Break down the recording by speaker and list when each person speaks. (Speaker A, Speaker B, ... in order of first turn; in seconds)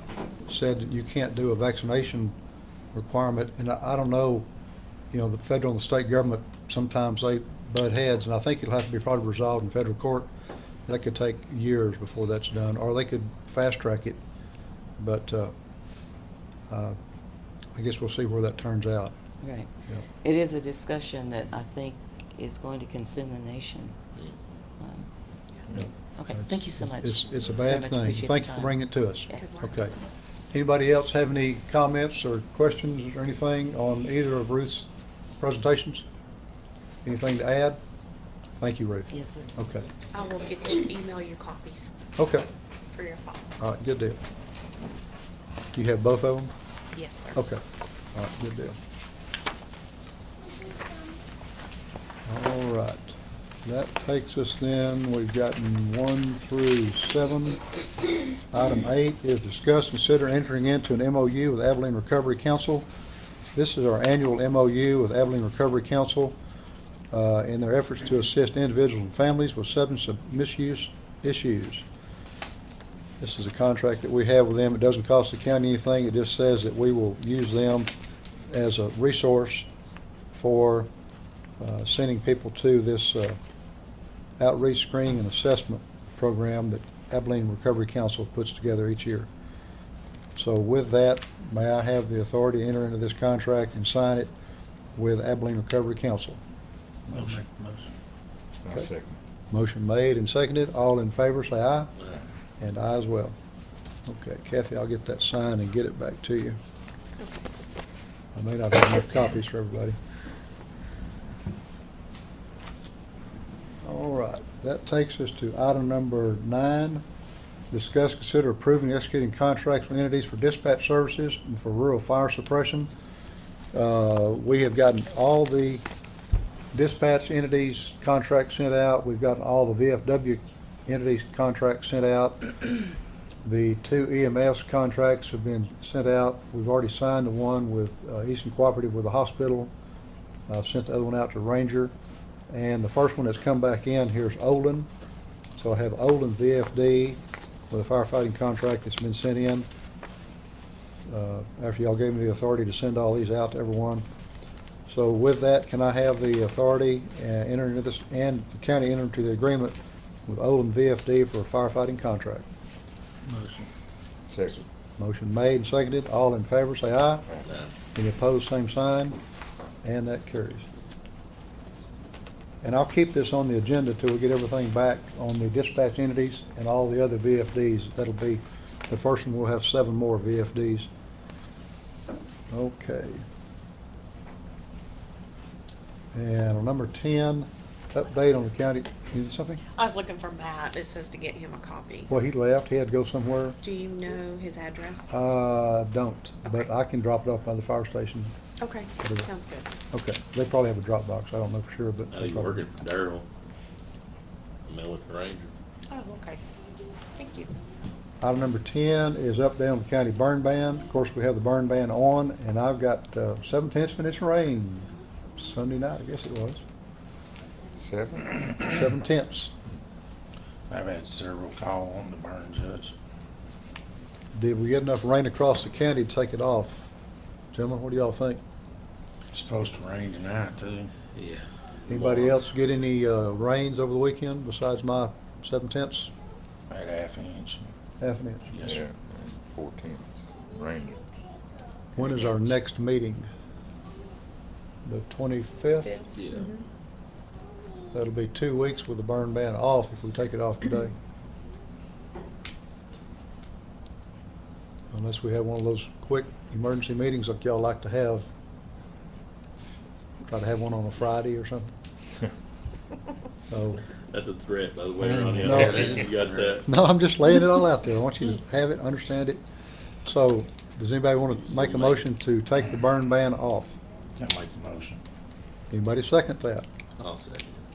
Speaker A: 0.5-2.3, 2.9-4.5, 5.1-10.3, 10.8-14.2, 15.0-15.5, 16.7-17.0, 17.8-19.1, 25.7-29.9, 30.5-36.0, 37.0-37.8, 38.6-39.9, 42.2-42.4, 43.6-44.2, 45.7-46.5, 47.3-47.6, 48.1-48.8, 52.3-57.6, 58.5-62.9, 63.5-66.4, 67.1-71.8, 73.2-77.9, 78.5-79.7, 80.3-80.9, 81.6-83.4, 84.4-89.3, 90.3-94.3, 94.9-96.4, 99.5-101.9, 102.6-103.3, 104.0-106.6, 108.3-110.0, 113.8-117.0, 117.7-122.9, 123.7-125.8, 126.7-132.6, 133.4-139.7, 140.5-141.9, 142.5-144.9, 145.6-147.2, 147.7-149.7, 151.1-154.0, 154.9-162.4, 165.0-167.2, 167.9-169.2, 169.8-170.7, 172.6-180.9, 182.5-183.2, 186.1-189.6, 192.1-193.6, 195.1-198.3, 199.0-199.3, 199.9-202.7, 208.2-216.6, 218.6-219.5, 224.3-226.9, 227.5-228.4, 231.9-236.1, 238.0-238.5, 241.9-243.3, 244.8-246.1, 247.9-250.9, 254.9-258.3, 260.3-261.7, 263.5-263.8, 265.3-266.0, 266.6-269.4, 270.0-273.8, 275.7-276.7
Speaker B: 19.4-24.0, 24.8-25.1, 26.1-29.6, 39.1-39.5
Speaker C: 29.3-29.8, 40.1-41.9, 42.9-43.4, 46.9-47.4, 189.7-192.1, 193.6-195.1, 196.4-196.7, 198.6-199.7, 205.9-206.4, 207.2-207.5, 246.0-246.6
Speaker D: 97.1-97.9, 163.3-163.6, 220.7-222.9, 229.3-230.9, 231.9-232.3, 236.7-237.7, 238.5-238.8, 265.4-266.6, 274.2-275.0
Speaker E: 97.1-97.4, 202.1-203.2, 204.6-205.5, 231.1-231.5, 246.1-246.5, 264.1-266.6, 271.5-272.0, 277.0-277.6
Speaker F: 98.6-99.2, 164.3-164.7, 217.7-218.5, 238.6-241.0